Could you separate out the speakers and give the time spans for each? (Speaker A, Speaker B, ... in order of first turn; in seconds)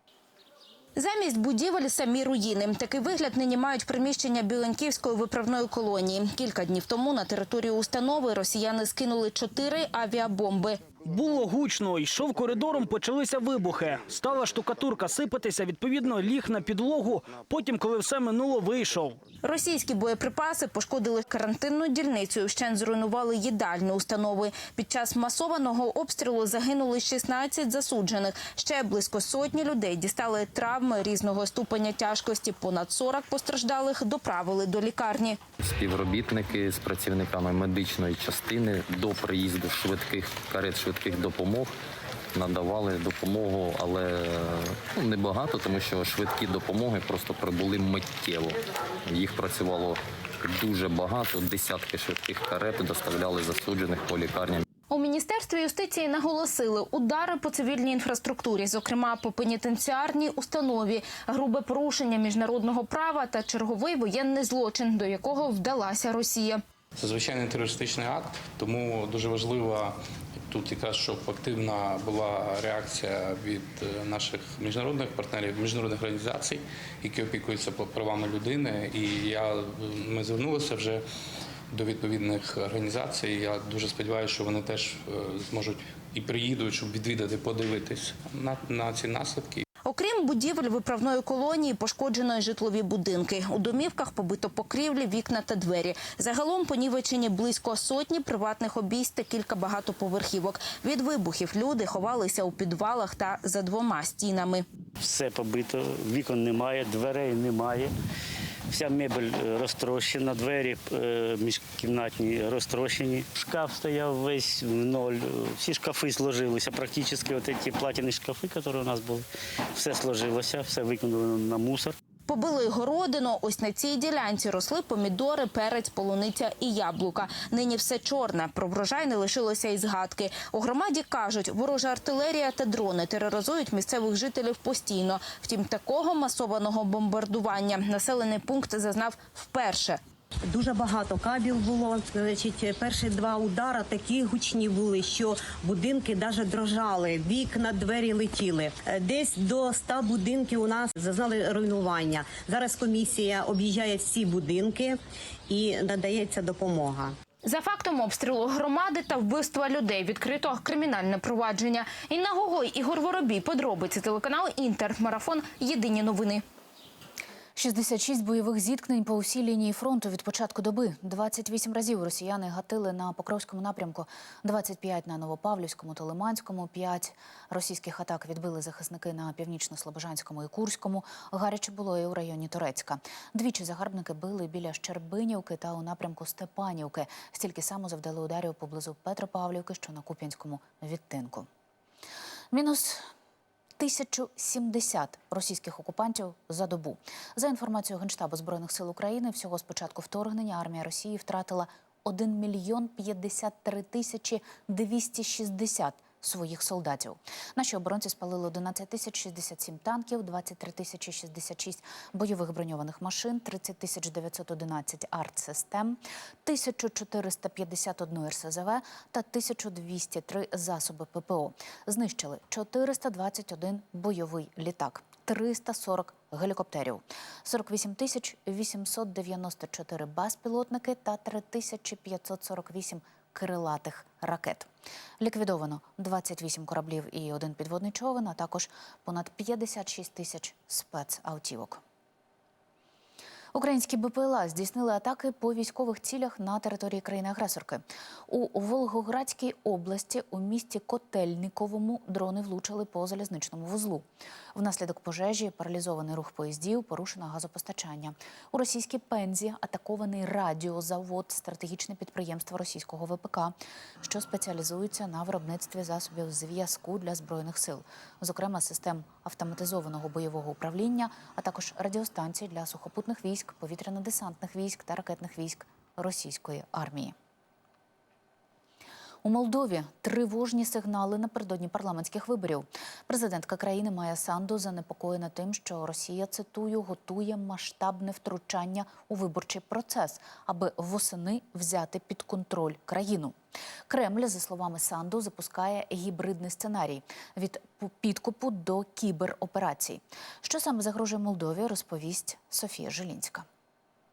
Speaker A: 1.0-10.9, 19.4-35.4, 54.9-66.6, 89.9-104.6, 122.3-140.0, 157.5-166.4
Speaker B: 11.1-19.2
Speaker C: 35.6-41.7, 42.3-48.5, 49.1-54.6
Speaker D: 67.0-70.0, 70.5-81.0, 81.7-89.6
Speaker E: 105.0-107.9, 108.7-119.2, 119.8-121.9
Speaker F: 140.5-155.0, 155.5-157.1
Speaker G: 167.6-191.4, 192.5-193.0, 193.8-234.7, 235.2-241.8, 243.5-277.1, 279.2-293.3, 293.9-303.4